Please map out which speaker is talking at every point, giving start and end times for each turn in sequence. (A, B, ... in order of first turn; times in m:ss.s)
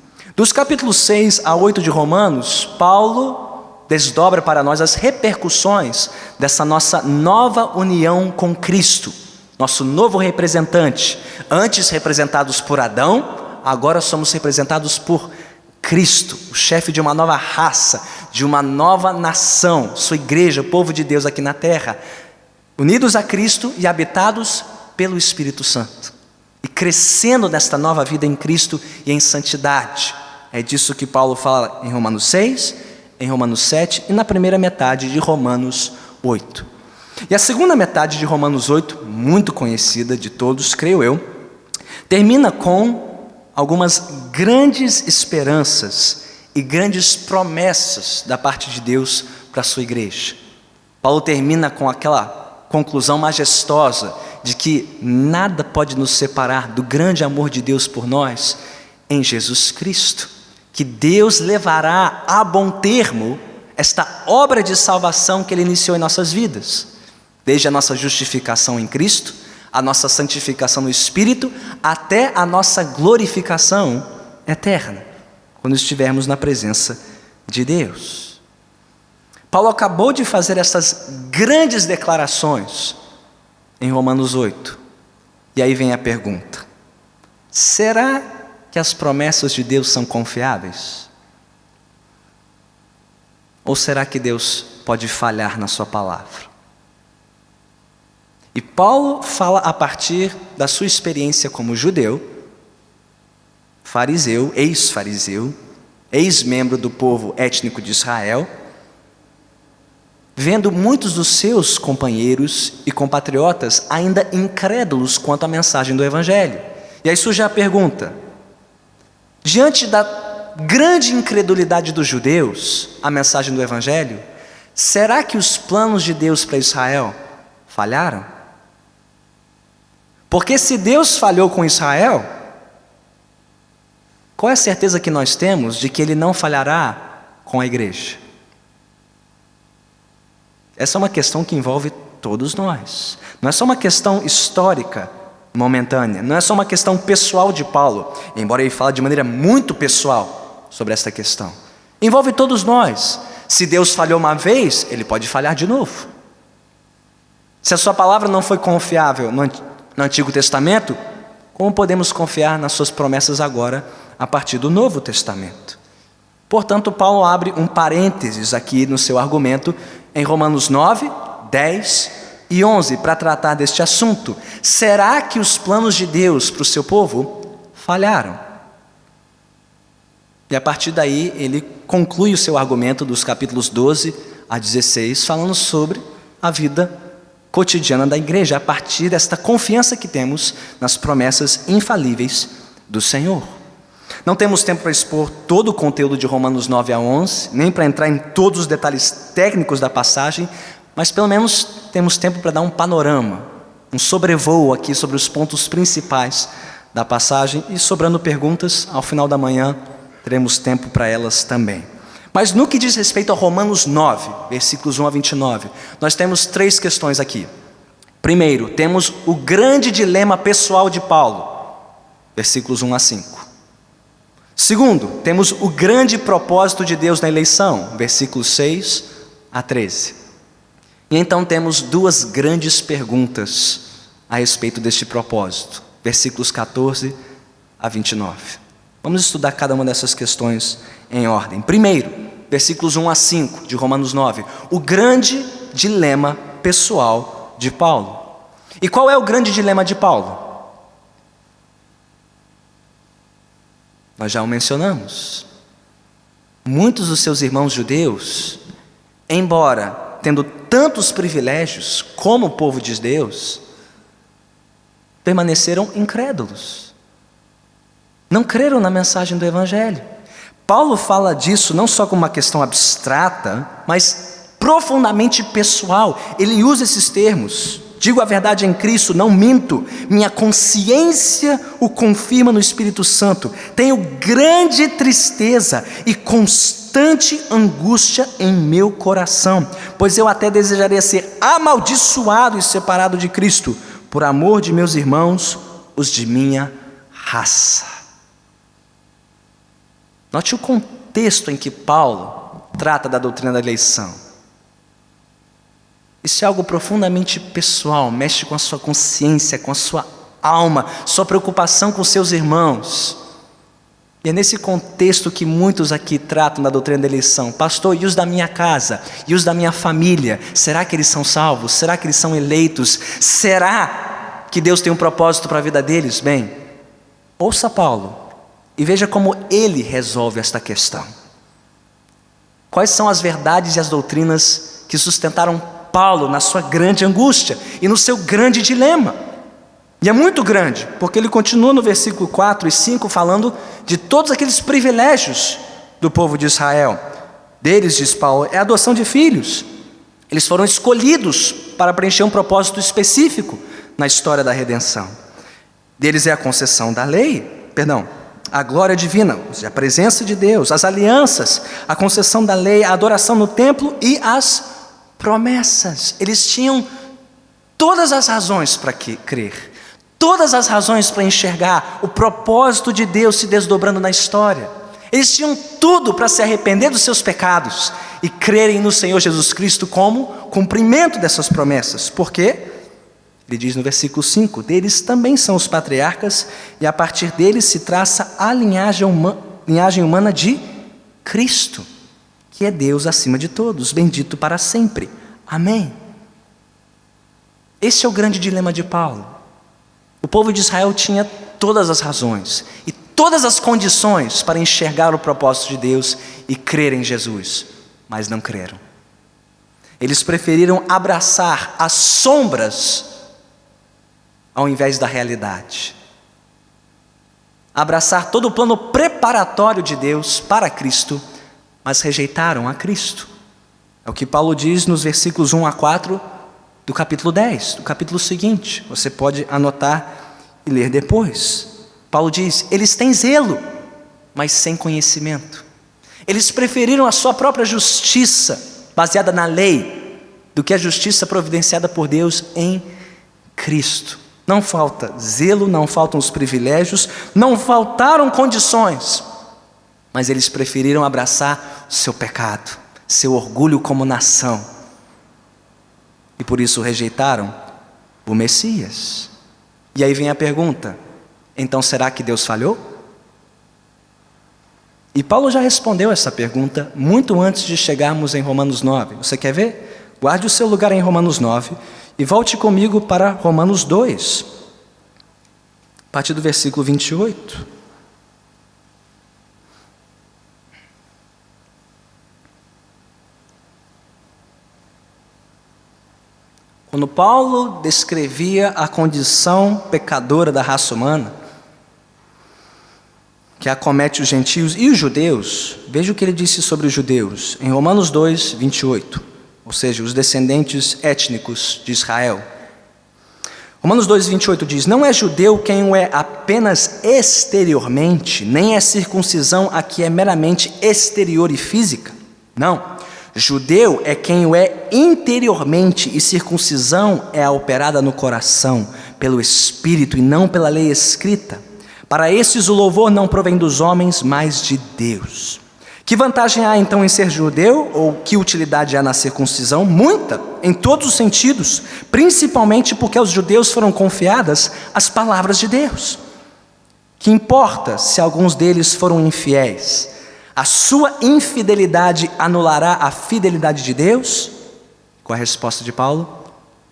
0:00.4-0:15.3 A
0:15.8-0:22.0 A
0:22.8-0:36.7 A
0:37.3-0:41.2 A
0:42.1-0:50.4 A
0:51.0-1:06.9 A
1:07.4-1:15.0 A
1:15.6-1:18.4 A
1:19.5-1:23.0 A
1:23.8-1:24.8 A
1:25.5-1:26.6 A
1:27.5-1:31.1 A
1:33.6-1:36.5 A
1:38.5-1:42.2 A
1:43.8-1:45.5 A
1:46.1-1:48.5 A
1:50.4-1:58.1 A
1:59.4-2:04.2 A
2:04.7-2:07.1 A
2:07.7-2:08.3 A
2:10.3-2:12.2 A
2:14.4-2:18.2 A
2:20.8-2:36.1 A
2:37.6-2:41.0 A
2:41.5-2:45.8 A
2:46.5-2:58.4 A
3:00.5-3:07.0 A
3:07.5-3:13.5 A
3:14.2-3:37.5 A
3:38.2-3:41.7 A
3:42.4-3:43.5 A
3:44.6-3:50.2 A
3:51.1-3:57.1 A
3:57.8-4:10.6 A
4:14.2-4:15.4 A
4:16.6-4:18.6 A
4:19.3-4:23.6 A
4:25.2-4:26.9 A
4:28.3-4:30.0 A
4:30.6-4:57.9 A
5:00.3-5:04.2 A
5:06.2-5:13.2 A
5:14.2-5:26.5 A
5:27.4-5:28.2 A
5:28.8-5:31.0 A
5:32.7-5:39.2 A
5:40.0-5:47.0 A
5:47.6-5:49.6 A
5:50.3-5:55.1 A
5:56.0-6:04.7 A
6:05.2-6:06.9 A
6:07.8-6:22.7 A
6:23.5-6:30.6 A
6:31.2-6:31.8 A
6:32.5-6:35.9 A
6:37.8-6:39.3 A
6:40.2-6:48.8 A
6:50.0-6:53.1 A
6:54.5-6:55.9 A
6:57.7-7:01.2 A
7:01.8-7:03.3 A
7:04.0-7:06.2 A
7:06.8-7:10.1 A
7:10.6-7:13.6 A
7:14.3-7:15.6 A
7:16.3-7:22.8 A
7:23.6-7:29.2 A
7:30.1-7:34.6 A
7:36.4-7:37.5 A
7:38.2-7:39.3 A
7:39.9-7:41.0 A
7:41.6-7:42.8 A
7:45.1-7:54.4 A
7:56.1-7:57.6 A
8:06.9-8:11.3 A
8:13.6-8:22.4 A
8:23.8-8:56.2 A
8:57.2-9:04.5 A
9:05.2-9:06.4 A